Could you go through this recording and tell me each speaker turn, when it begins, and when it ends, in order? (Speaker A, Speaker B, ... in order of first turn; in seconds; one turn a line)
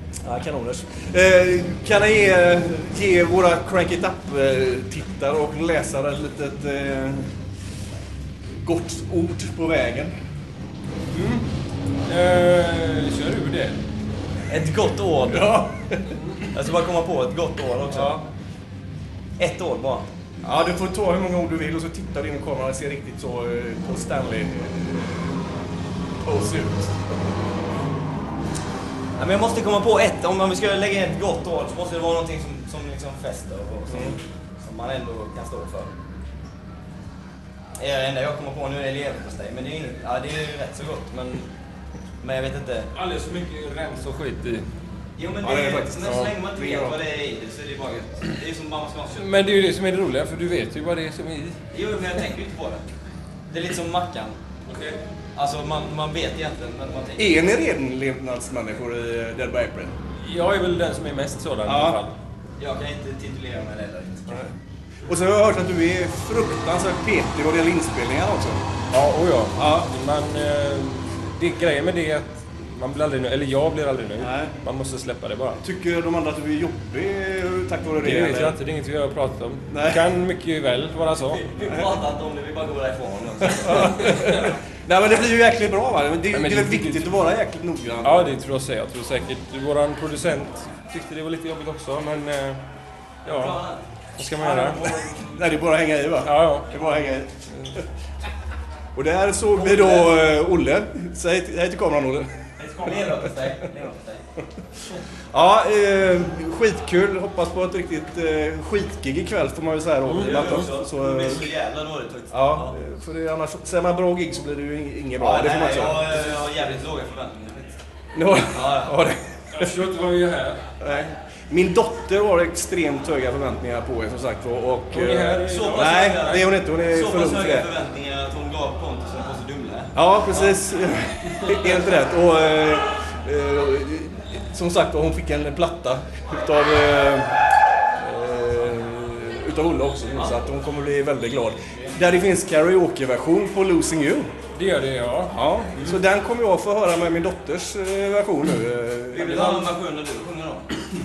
Speaker A: 0.2-7.3
Speaker A: 8.6-10.1
Speaker B: 11.1-11.5
Speaker B: 12.1-13.8
Speaker C: 14.5-15.5
Speaker A: 15.3-16.2
Speaker B: 16.1-16.6
Speaker C: 16.5-18.2
Speaker B: 17.9-18.2
Speaker C: 19.4-20.1
Speaker A: 20.4-25.4
Speaker A: 26.2-27.4
Speaker C: 29.2-35.9
Speaker A: 33.9-34.2
Speaker C: 37.8-41.5
Speaker C: 42.2-42.9
Speaker B: 42.9-44.7
Speaker C: 45.2-49.3
Speaker A: 45.4-47.0
Speaker B: 46.1-46.3
Speaker B: 49.2-51.6
Speaker C: 51.7-52.8
Speaker C: 53.5-54.4
Speaker B: 54.7-55.0
Speaker C: 55.4-57.5
Speaker A: 57.2-60.0
Speaker B: 60.2-62.1
Speaker A: 61.6-62.0
Speaker C: 62.6-64.5
Speaker A: 65.1-68.7
Speaker B: 68.9-75.6
Speaker A: 69.6-69.9
Speaker A: 74.2-74.5
Speaker A: 75.6-78.6
Speaker B: 78.0-81.4
Speaker A: 79.7-80.0
Speaker C: 81.2-84.3
Speaker A: 83.7-88.4
Speaker B: 83.7-84.5
Speaker B: 86.3-87.1
Speaker B: 88.0-92.6
Speaker B: 93.2-93.6
Speaker C: 93.2-93.8
Speaker B: 94.2-94.8
Speaker C: 94.4-95.5
Speaker A: 95.1-97.8
Speaker B: 96.2-96.7
Speaker A: 99.0-102.3
Speaker C: 99.5-100.2
Speaker C: 102.6-104.2
Speaker A: 102.8-103.2
Speaker A: 105.3-111.5
Speaker B: 110.0-110.7
Speaker C: 110.2-112.8
Speaker A: 112.3-116.5
Speaker C: 115.2-117.8
Speaker A: 118.2-119.8
Speaker C: 118.4-119.0
Speaker B: 119.5-120.6
Speaker A: 120.8-127.7
Speaker B: 124.9-126.5
Speaker C: 125.5-130.5
Speaker A: 129.9-137.3
Speaker A: 138.0-144.3
Speaker B: 144.5-146.0
Speaker A: 145.3-149.7
Speaker C: 149.1-150.7